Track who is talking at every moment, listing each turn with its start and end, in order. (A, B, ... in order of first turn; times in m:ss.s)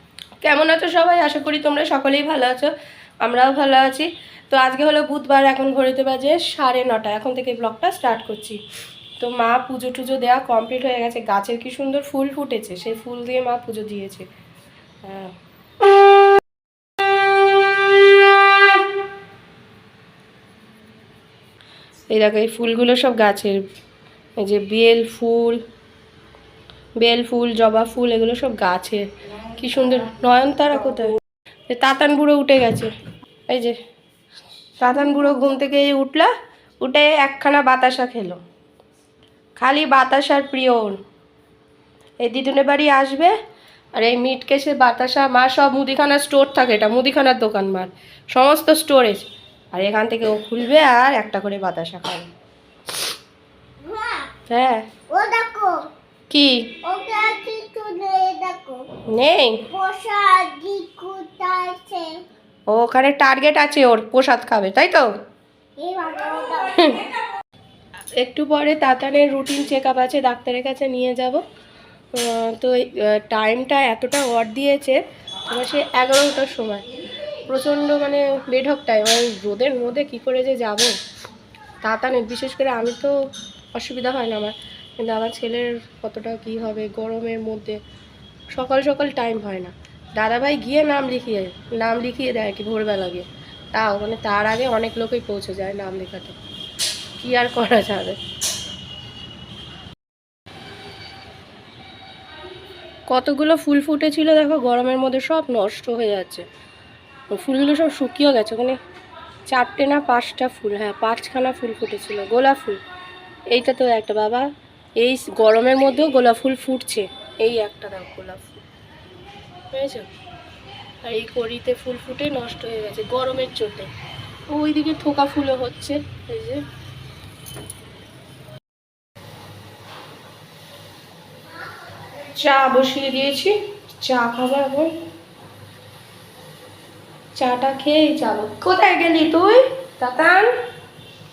0:00.4-0:08.6 A
0:09.2-0:14.3 A
0:15.0-0:15.4 A
0:22.1-0:23.6 A
0:24.4-0:25.6 A
0:27.0-0:32.9 A
0:33.5-0:33.8 A
0:34.8-0:38.4 A
0:39.6-0:41.0 A
0:42.2-0:43.4 A
0:44.0-0:52.3 A
0:53.8-0:54.3 B
0:54.5-0:54.9 A
0:55.1-0:55.9 B
0:56.3-0:56.8 A
0:56.8-0:58.9 B
0:59.0-0:59.7 A
0:59.7-1:02.2 B
1:02.7-1:05.1 A
1:05.8-1:06.9 B
1:06.7-1:07.1 A
1:08.2-1:11.4 A
1:12.1-1:21.0 A
1:21.8-1:27.8 A
1:28.5-1:36.4 A
1:37.2-1:38.2 A
1:43.1-1:46.5 A
1:47.3-1:48.8 A
1:49.5-1:52.8 A
1:53.5-1:58.6 A
1:59.7-2:00.1 A
2:01.0-2:03.9 A
2:04.5-2:06.6 A
2:12.2-2:14.9 A
2:17.4-2:20.5 A